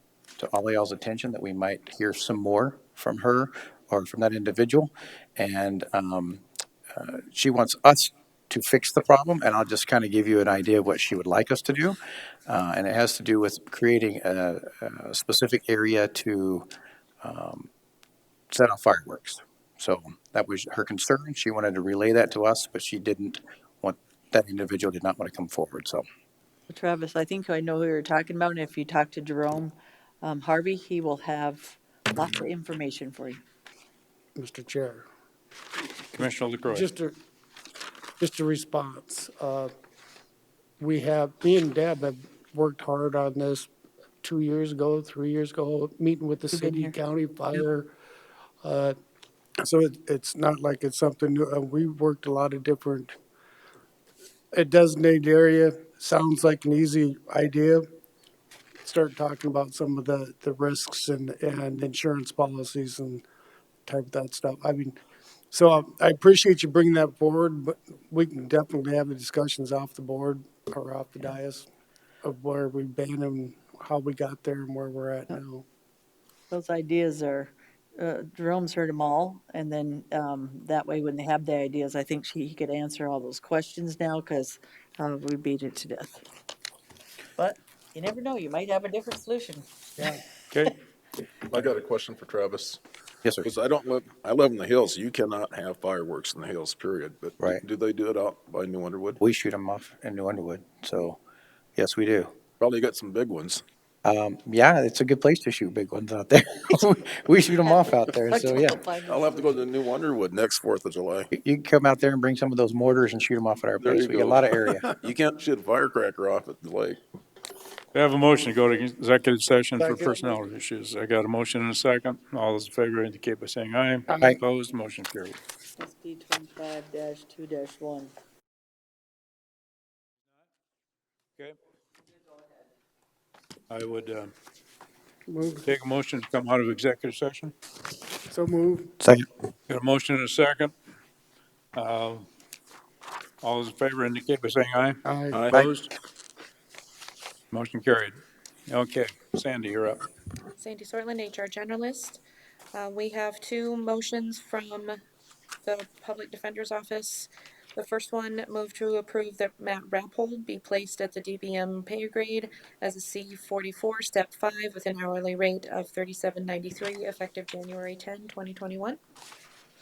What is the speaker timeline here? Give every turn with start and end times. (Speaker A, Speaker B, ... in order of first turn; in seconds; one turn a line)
Speaker A: 0.4-6.4
Speaker A: 7.0-16.7
Speaker A: 17.2-17.7
Speaker A: 18.5-26.1
Speaker B: 26.7-33.4
Speaker C: 34.4-35.1
Speaker D: 36.1-36.9
Speaker C: 36.2-37.2
Speaker C: 38.2-39.7
Speaker C: 40.8-43.7
Speaker C: 44.2-47.9
Speaker B: 46.5-46.9
Speaker C: 48.6-49.0
Speaker C: 49.6-53.2
Speaker C: 54.5-57.9
Speaker C: 58.8-63.2
Speaker C: 63.9-65.0
Speaker C: 65.5-71.7
Speaker C: 72.2-75.7
Speaker B: 76.5-86.2
Speaker B: 87.4-90.2
Speaker E: 91.5-92.8
Speaker E: 93.4-99.2
Speaker A: 99.2-101.2
Speaker A: 101.8-102.3
Speaker E: 102.6-103.6
Speaker A: 104.0-108.8
Speaker B: 107.5-109.6
Speaker E: 109.0-111.3
Speaker A: 111.3-114.9
Speaker E: 113.8-117.0
Speaker D: 117.9-125.4
Speaker C: 119.8-120.5
Speaker C: 124.1-124.4
Speaker B: 125.8-128.1
Speaker D: 133.7-134.3
Speaker C: 135.3-135.7
Speaker D: 135.7-137.5
Speaker C: 138.3-138.9
Speaker A: 139.0-139.3
Speaker D: 139.7-140.7
Speaker D: 141.8-142.3
Speaker D: 143.4-145.9
Speaker C: 145.1-145.4
Speaker E: 145.3-145.7
Speaker D: 147.5-148.1
Speaker D: 148.7-150.0
Speaker F: 150.5-152.2
Speaker F: 152.7-155.0
Speaker F: 155.7-169.0